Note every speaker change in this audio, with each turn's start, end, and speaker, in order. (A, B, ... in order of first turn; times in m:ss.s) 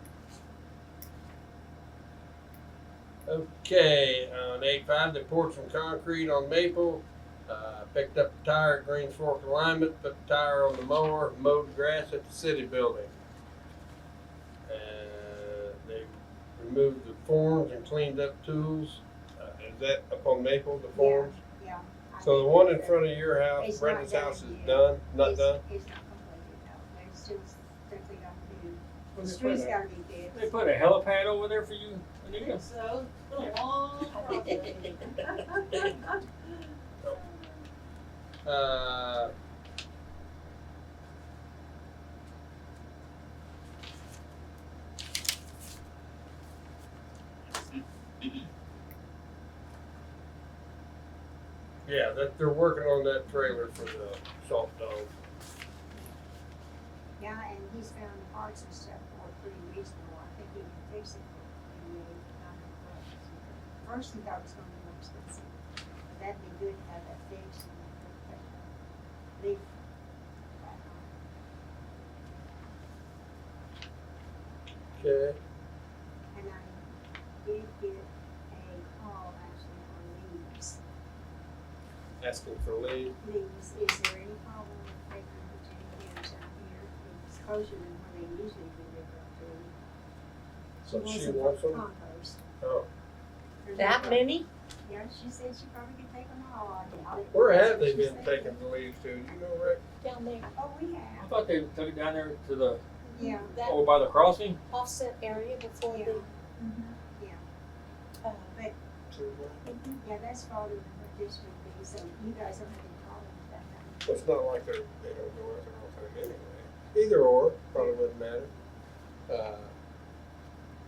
0:03.3-0:13.1 A
0:14.7-0:21.3 A
0:20.9-0:30.5 B
0:22.2-0:25.6 A
0:29.2-0:29.8 C
0:30.3-0:32.7 C
0:32.6-0:35.9 D
0:34.0-0:36.0 B
0:38.4-0:39.3 A
0:51.9-0:55.1 A
0:57.2-1:05.6 B
1:06.1-1:08.7 B
1:09.4-1:09.6 B
1:10.6-1:11.1 B
1:15.0-1:15.4 A
1:16.3-1:16.9 B
1:17.4-1:20.8 B
1:22.2-1:23.2 A
1:23.2-1:29.7 B
1:30.8-1:31.8 A
1:30.9-1:32.4 B
1:32.6-1:32.9 A
1:33.6-1:38.6 B
1:33.8-1:34.4 E
1:37.3-1:39.8 A
1:40.0-1:40.4 E
1:40.6-1:41.3 B
1:41.2-1:42.8 C
1:43.1-1:43.6 B
1:43.2-1:43.8 E
1:43.6-1:44.6 C
1:44.7-1:46.2 E
1:45.8-1:47.4 B
1:48.2-1:48.5 E
1:48.5-1:48.8 B
1:49.1-1:49.7 A
1:49.6-1:54.2 B
1:54.0-1:58.5 A
1:57.8-1:58.0 B
1:59.3-1:59.7 A